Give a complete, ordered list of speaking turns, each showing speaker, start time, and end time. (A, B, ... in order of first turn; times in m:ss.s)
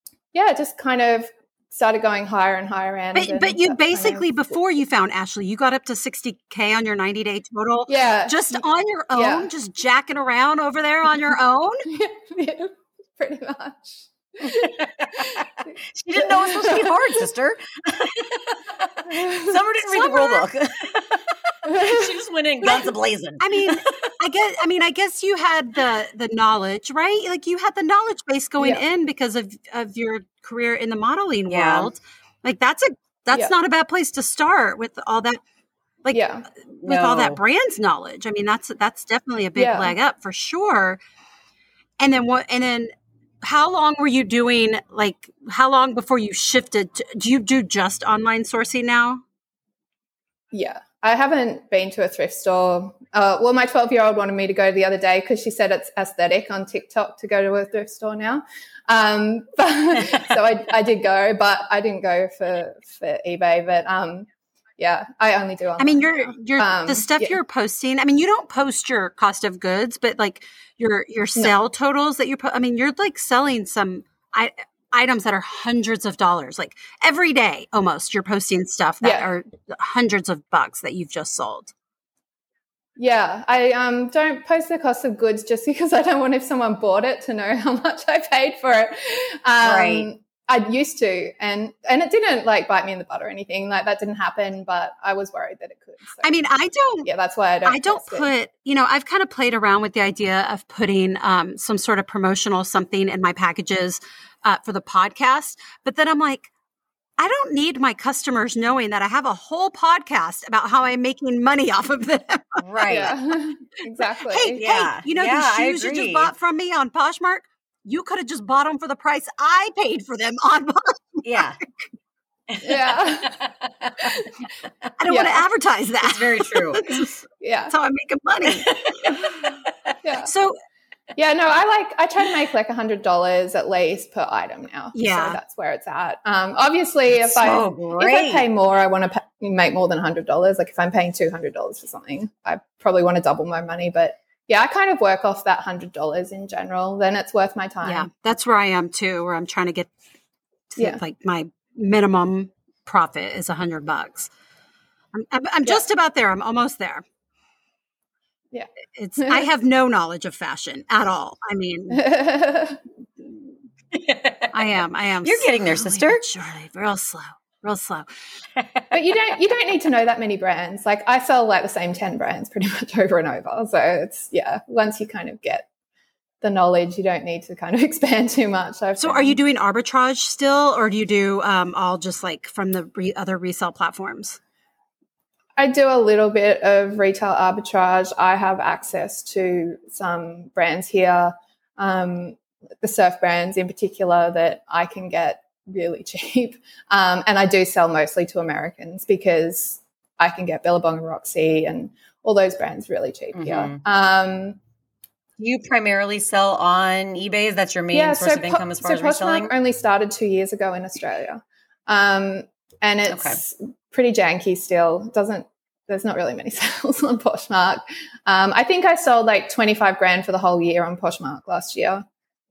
0:00.3-0:04.6 A
0:03.1-0:11.9 B
0:07.9-0:09.5 A
0:11.9-0:15.3 A
0:14.4-0:24.1 C
0:16.2-0:17.0 A
0:19.1-0:19.6 A
0:19.8-0:20.4 B
0:21.7-0:22.1 A
0:23.4-0:35.4 B
0:31.5-0:31.9 C
0:36.1-0:36.5 A
0:36.8-0:41.0 B
0:36.8-0:37.4 C
0:39.6-0:40.0 A
0:42.0-0:42.9 B
0:43.4-0:49.2 B
0:50.5-1:07.4 A
1:05.8-1:21.7 B
1:19.0-1:19.3 A
1:23.0-1:36.3 A
1:29.6-1:30.1 C
1:36.2-1:37.1 B
1:37.0-1:38.3 A
1:37.6-1:46.5 B
1:47.2-1:52.6 B
1:52.6-1:53.1 C
1:52.9-1:54.6 A
1:54.3-2:01.6 B
1:54.6-1:56.3 C
2:01.2-2:01.6 C
2:02.5-2:04.2 C
2:02.6-2:03.3 A
2:05.0-2:09.4 B
2:05.1-2:05.4 A
2:06.0-2:07.0 C
2:07.4-2:07.7 A
2:08.5-2:09.7 C
2:10.0-2:10.3 A
2:10.2-2:10.6 B
2:11.2-2:28.1 A
2:14.9-2:15.4 B
2:17.1-2:18.5 C
2:27.8-2:29.9 B
2:30.7-2:34.3 B
2:35.1-2:37.0 B
2:38.5-2:39.5 A
2:39.0-2:42.0 B
2:41.9-2:42.8 A
2:43.9-2:44.6 C
2:44.5-2:48.1 B
2:45.2-2:46.2 C
2:48.6-2:48.9 C
2:48.9-2:55.7 A
2:56.4-2:59.4 A
2:59.0-3:04.4 B
3:05.6-3:24.6 A
3:23.3-3:23.8 C
3:25.4-3:29.5 C
3:27.9-3:42.0 A
3:33.1-3:33.4 C